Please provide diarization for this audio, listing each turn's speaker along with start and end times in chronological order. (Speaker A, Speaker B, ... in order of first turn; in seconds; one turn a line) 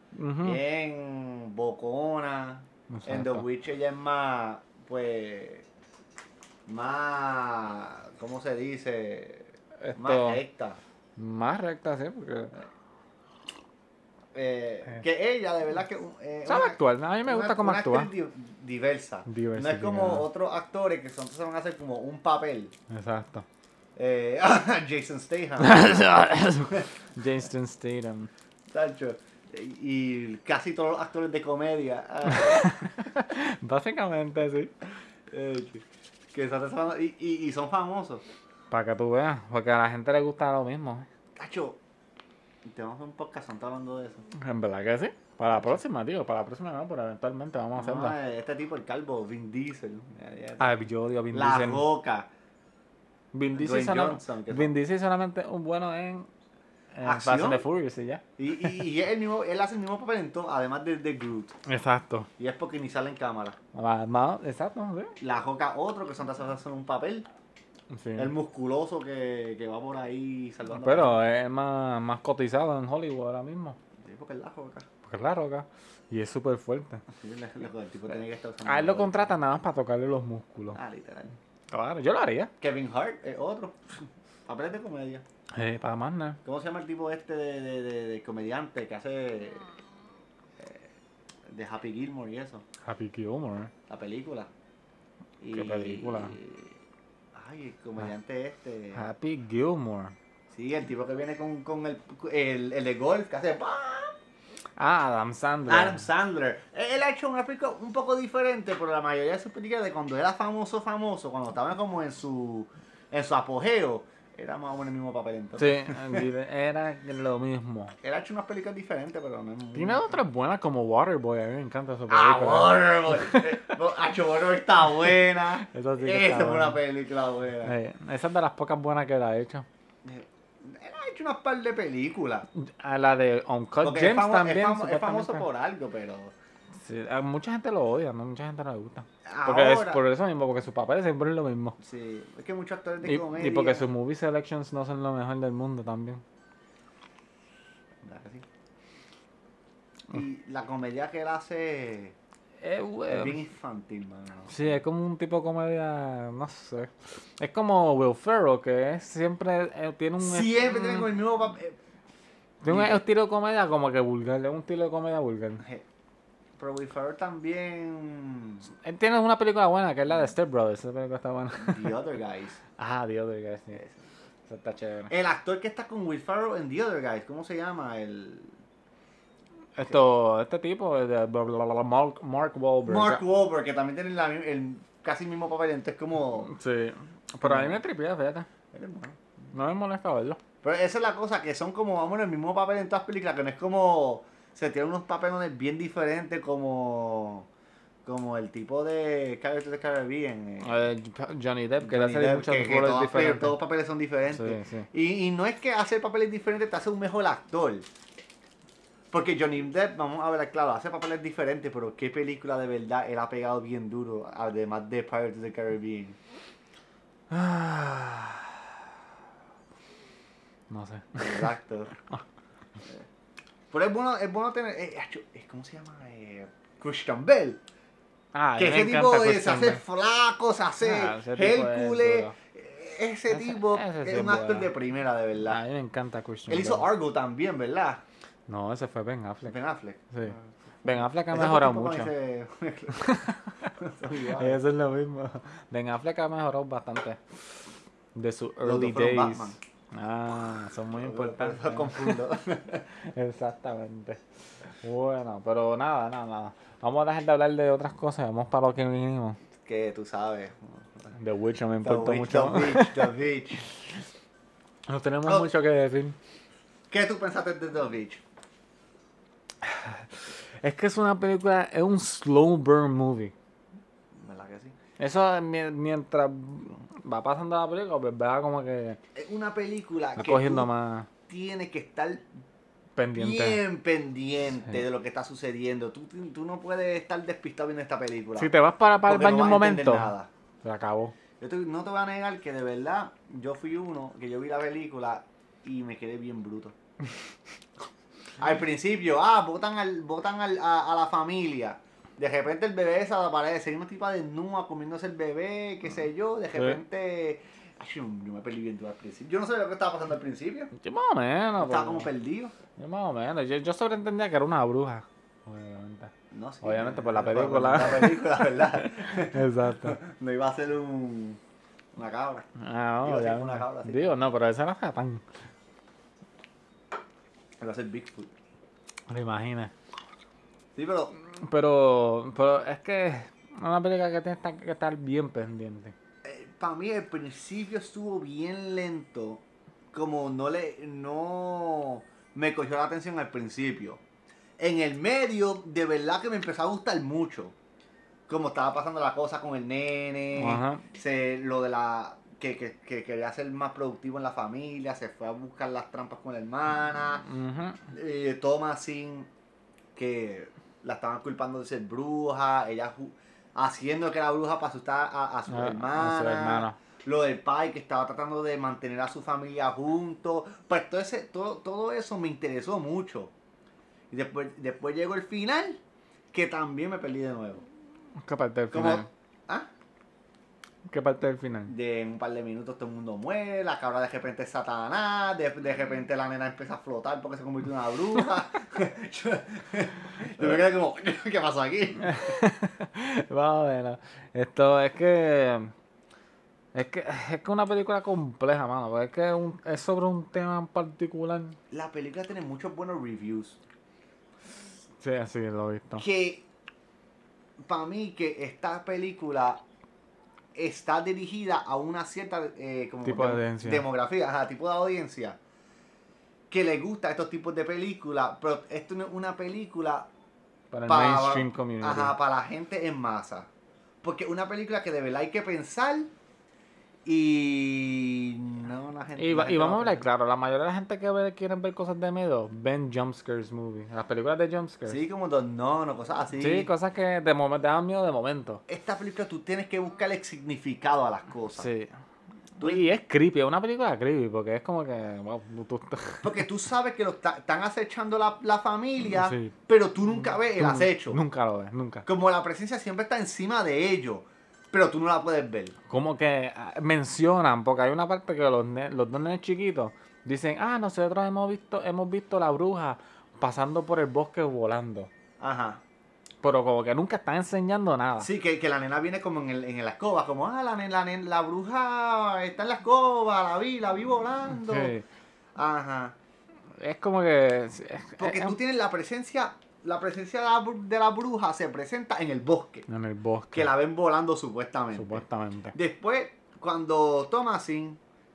Speaker A: 0.1-0.6
Speaker B: 0.4-5.7
Speaker A: 2.9-3.5
Speaker B: 6.7-10.8
Speaker A: 9.8-10.4
Speaker A: 11.2-12.5
Speaker B: 14.3-22.7
Speaker A: 16.5-18.1
Speaker A: 19.3-20.3
Speaker A: 22.9-23.5
Speaker B: 24.0-26.9
Speaker A: 25.6-28.3
Speaker B: 28.7-32.7
Speaker A: 32.3-34.7
Speaker B: 35.3-38.2
Speaker A: 38.7-41.1
Speaker B: 41.4-41.8
Speaker B: 42.7-44.2
Speaker A: 44.4-48.2
Speaker B: 45.5-45.8
Speaker B: 47.8-50.8
Speaker A: 50.6-51.9
Speaker B: 51.3-52.3
Speaker A: 53.3-56.3
Speaker B: 53.5-54.8
Speaker A: 56.9-58.8
Speaker B: 57.0-57.6
Speaker B: 58.4-61.5
Speaker A: 61.7-62.3
Speaker B: 62.4-63.6
Speaker A: 63.7-65.2
Speaker B: 65.2-67.3
Speaker A: 67.9-68.3
Speaker B: 68.2-71.2
Speaker A: 70.7-73.8
Speaker B: 74.0-74.9
Speaker A: 75.0-77.0
Speaker B: 77.1-79.4
Speaker A: 78.6-80.8
Speaker B: 80.7-81.3
Speaker A: 81.7-82.5
Speaker B: 82.6-83.8
Speaker B: 84.5-85.2
Speaker A: 85.5-86.4
Speaker B: 86.5-89.7
Speaker B: 90.6-90.8
Speaker B: 91.5-92.6
Speaker A: 92.8-93.7
Speaker B: 93.9-94.5
Speaker B: 95.4-96.8
Speaker A: 95.5-96.3
Speaker B: 97.3-99.1
Speaker A: 98.9-100.2
Speaker B: 100.5-104.2
Speaker A: 104.8-106.1
Speaker B: 105.7-116.3
Speaker A: 115.6-117.9
Speaker B: 118.0-120.2
Speaker A: 119.8-123.7
Speaker B: 122.1-127.8
Speaker A: 125.6-126.8
Speaker A: 127.6-129.7
Speaker B: 130.1-132.5
Speaker A: 132.6-135.4
Speaker B: 133.8-136.3
Speaker A: 136.8-141.8
Speaker B: 139.2-140.0
Speaker B: 141.8-143.9
Speaker A: 143.0-146.2
Speaker B: 148.0-148.4
Speaker B: 150.1-152.2
Speaker A: 152.6-153.4
Speaker B: 153.1-154.6
Speaker A: 154.5-161.1
Speaker B: 160.2-161.8
Speaker A: 162.6-165.6
Speaker B: 162.7-163.0
Speaker B: 166.6-168.7
Speaker A: 168.8-171.9
Speaker B: 171.6-172.6
Speaker A: 172.8-173.8
Speaker A: 174.5-175.1
Speaker B: 175.1-178.5
Speaker A: 179.8-183.2
Speaker B: 182.9-186.5
Speaker A: 186.4-188.5
Speaker B: 187.4-187.8
Speaker B: 188.7-189.5
Speaker A: 189.5-190.4
Speaker B: 190.6-197.5
Speaker B: 198.1-200.9
Speaker A: 200.6-203.6
Speaker B: 201.8-207.8
Speaker A: 204.3-204.9
Speaker B: 209.1-216.2
Speaker A: 217.3-218.7
Speaker A: 220.7-221.5
Speaker B: 221.2-221.9
Speaker B: 223.7-227.6
Speaker A: 228.3-229.8
Speaker B: 228.6-235.6
Speaker A: 230.8-232.3
Speaker A: 233.3-234.7
Speaker A: 235.4-236.9
Speaker B: 236.5-238.0
Speaker A: 238.5-239.6
Speaker B: 239.5-243.1
Speaker A: 240.1-242.1
Speaker A: 242.9-243.5
Speaker B: 243.7-244.6
Speaker A: 244.3-247.2
Speaker A: 248.2-252.2
Speaker B: 248.6-249.6
Speaker B: 250.9-252.9
Speaker A: 253.0-254.2
Speaker A: 254.8-259.4
Speaker B: 259.6-261.1
Speaker A: 261.1-263.1
Speaker B: 261.8-263.7
Speaker A: 264.9-266.2
Speaker B: 266.9-268.2
Speaker A: 269.6-273.3
Speaker B: 274.2-274.7
Speaker A: 275.0-279.0
Speaker B: 279.1-280.7
Speaker A: 280.2-281.1
Speaker B: 281.3-282.3
Speaker A: 283.0-283.6
Speaker B: 283.1-288.5
Speaker A: 288.4-291.1
Speaker B: 289.1-290.3
Speaker B: 291.4-296.8
Speaker B: 298.4-310.7
Speaker A: 306.5-306.8
Speaker A: 310.8-312.1
Speaker B: 311.6-312.5
Speaker A: 312.8-320.0
Speaker B: 316.3-321.4
Speaker B: 322.0-322.5
Speaker A: 322.6-325.2
Speaker B: 323.0-324.2
Speaker B: 327.6-328.3
Speaker A: 329.1-329.7
Speaker B: 330.8-331.1
Speaker A: 331.3-335.9
Speaker B: 336.2-339.4
Speaker B: 339.9-344.0
Speaker B: 344.6-347.5
Speaker B: 348.3-357.2
Speaker A: 350.4-350.8
Speaker A: 357.2-357.8
Speaker B: 357.9-359.3
Speaker B: 360.0-373.3
Speaker A: 365.5-366.8
Speaker B: 374.1-375.8
Speaker B: 376.3-377.6
Speaker A: 378.2-379.1
Speaker B: 378.7-379.7
Speaker A: 380.9-381.7
Speaker B: 381.7-392.4
Speaker A: 392.0-395.7
Speaker A: 396.7-401.6
Speaker B: 401.7-403.6
Speaker A: 405.0-406.0
Speaker B: 406.0-406.4
Speaker B: 407.7-409.6
Speaker B: 410.6-415.4
Speaker A: 413.1-413.9
Speaker B: 416.5-420.1
Speaker A: 420.7-422.1
Speaker B: 420.9-423.5
Speaker B: 424.0-426.1
Speaker B: 427.1-430.1
Speaker A: 429.2-435.0
Speaker B: 434.9-436.7
Speaker A: 436.4-438.6
Speaker B: 438.7-441.7
Speaker A: 441.5-441.9
Speaker A: 442.6-446.4
Speaker B: 442.6-442.9
Speaker B: 446.2-451.2
Speaker A: 449.0-449.5
Speaker A: 450.1-452.1
Speaker B: 452.1-455.8
Speaker A: 455.9-465.1
Speaker B: 465.4-465.8
Speaker A: 466.4-468.3
Speaker B: 468.2-474.9
Speaker A: 474.5-475.1
Speaker B: 475.6-476.1
Speaker A: 476.8-478.6
Speaker B: 478.2-482.9
Speaker A: 482.9-483.7
Speaker B: 483.5-488.0
Speaker A: 484.9-485.7